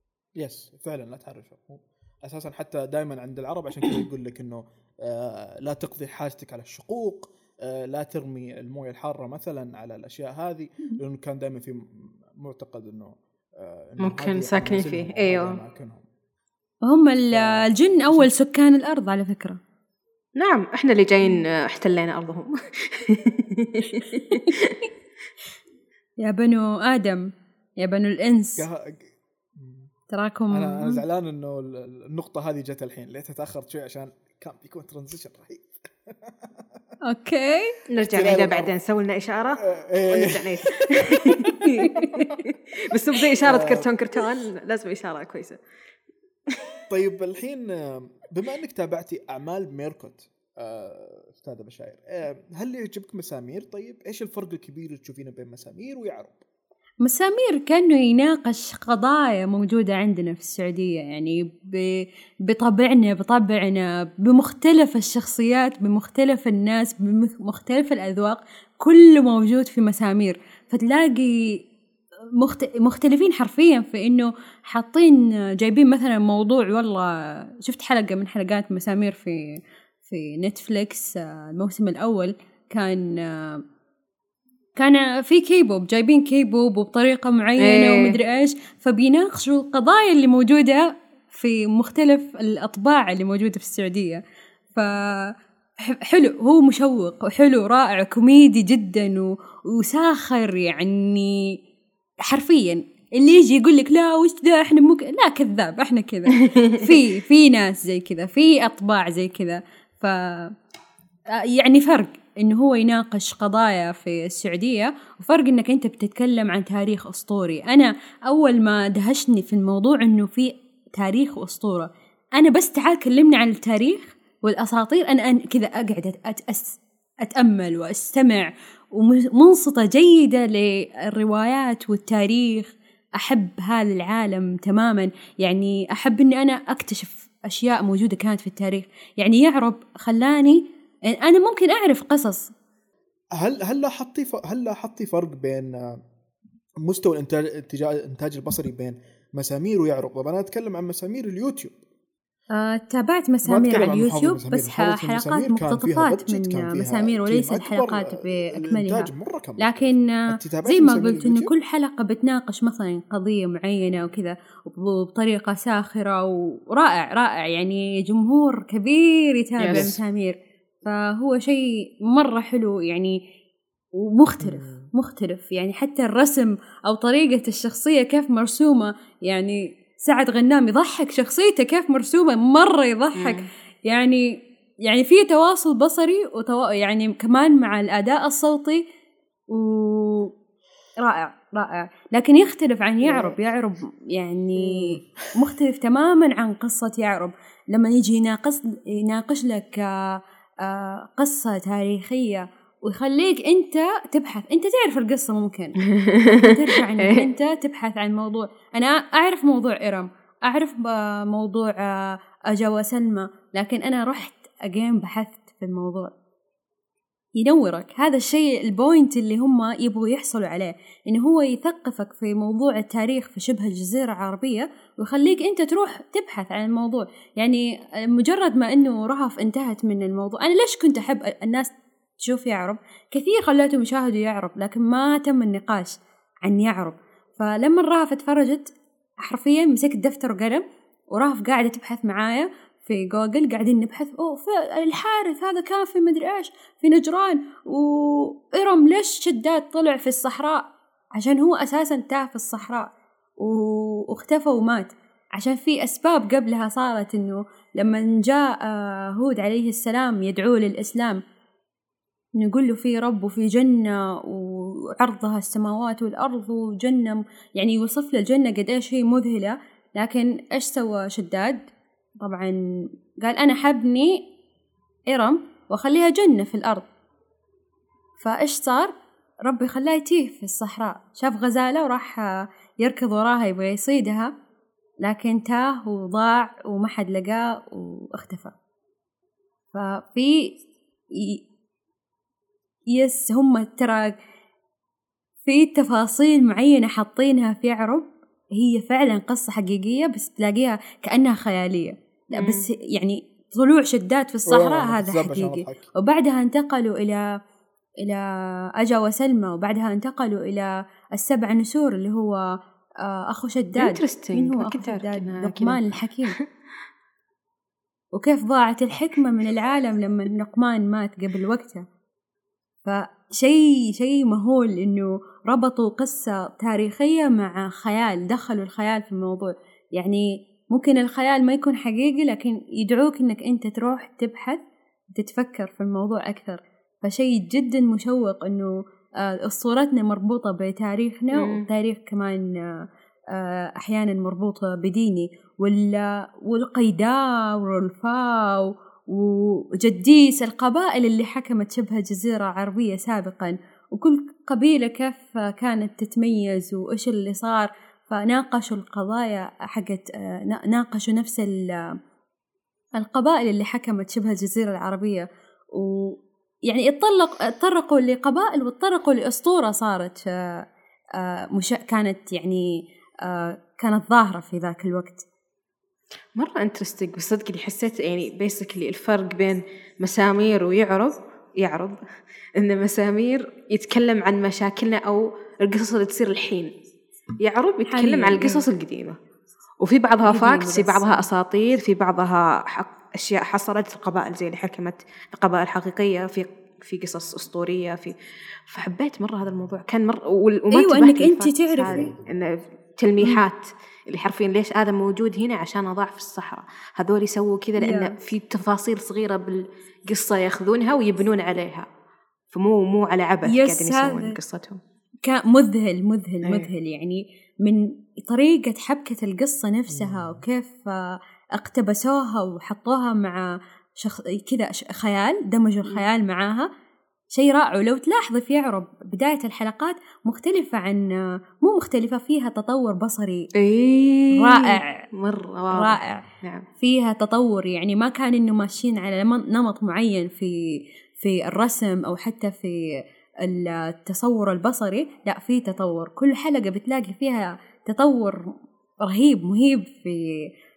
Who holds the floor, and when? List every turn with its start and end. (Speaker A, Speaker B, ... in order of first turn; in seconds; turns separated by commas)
Speaker A: 0.4-16.1, Speaker B: 14.0-15.6, Speaker C: 16.8-19.6, Speaker A: 17.2-18.3, Speaker B: 20.4-24.8, Speaker C: 26.2-28.7, Speaker A: 28.6-29.9, Speaker C: 30.1-31.0, Speaker A: 30.5-36.7, Speaker C: 37.0-37.8, Speaker B: 37.9-45.6, Speaker A: 38.0-38.7, Speaker A: 39.6-41.6, Speaker A: 42.1-42.4, Speaker A: 43.4-43.9, Speaker A: 46.9-56.4, Speaker C: 57.0-71.7, Speaker C: 72.4-83.6, Speaker C: 84.8-94.2, Speaker B: 87.6-88.2, Speaker C: 94.7-95.4, Speaker C: 95.9-101.6, Speaker C: 102.2-110.5, Speaker B: 106.4-106.9, Speaker C: 111.3-142.5, Speaker A: 143.4-146.0, Speaker A: 146.8-151.8, Speaker C: 152.5-173.2, Speaker A: 153.5-161.5, Speaker B: 169.6-169.9, Speaker A: 169.7-170.0, Speaker C: 174.0-184.3, Speaker A: 174.4-174.9, Speaker B: 183.2-183.5, Speaker C: 184.9-188.8, Speaker C: 189.5-190.3, Speaker C: 191.0-216.1, Speaker B: 193.0-193.3, Speaker B: 205.9-206.4, Speaker B: 207.0-207.3, Speaker C: 217.4-261.2, Speaker C: 262.4-274.3, Speaker C: 275.1-276.9, Speaker C: 278.2-278.9, Speaker C: 279.5-284.3, Speaker C: 285.0-288.6, Speaker C: 289.7-290.6, Speaker C: 291.1-291.4, Speaker C: 292.9-294.1, Speaker C: 295.5-307.4, Speaker B: 302.4-302.7, Speaker A: 304.5-305.9, Speaker C: 308.8-312.4, Speaker C: 313.0-316.4, Speaker B: 313.8-316.4, Speaker C: 318.1-321.9, Speaker C: 322.9-334.6, Speaker C: 335.2-338.7, Speaker C: 339.2-361.6, Speaker B: 341.3-341.6, Speaker C: 363.0-370.6, Speaker C: 371.2-372.7, Speaker C: 373.2-375.3, Speaker B: 376.4-382.0, Speaker B: 382.6-386.7, Speaker B: 387.4-389.2, Speaker C: 387.9-388.6, Speaker B: 389.8-411.9, Speaker C: 390.2-391.2, Speaker C: 400.7-402.1, Speaker A: 401.9-402.2, Speaker C: 407.8-408.1, Speaker B: 412.5-414.8, Speaker C: 413.5-414.4, Speaker C: 415.2-423.4, Speaker B: 416.4-416.7, Speaker A: 419.9-420.4, Speaker C: 424.0-426.7, Speaker C: 427.3-433.5, Speaker B: 433.6-436.7, Speaker C: 434.4-435.1, Speaker C: 435.7-436.2, Speaker C: 436.8-440.6, Speaker C: 441.2-448.5, Speaker C: 449.0-450.3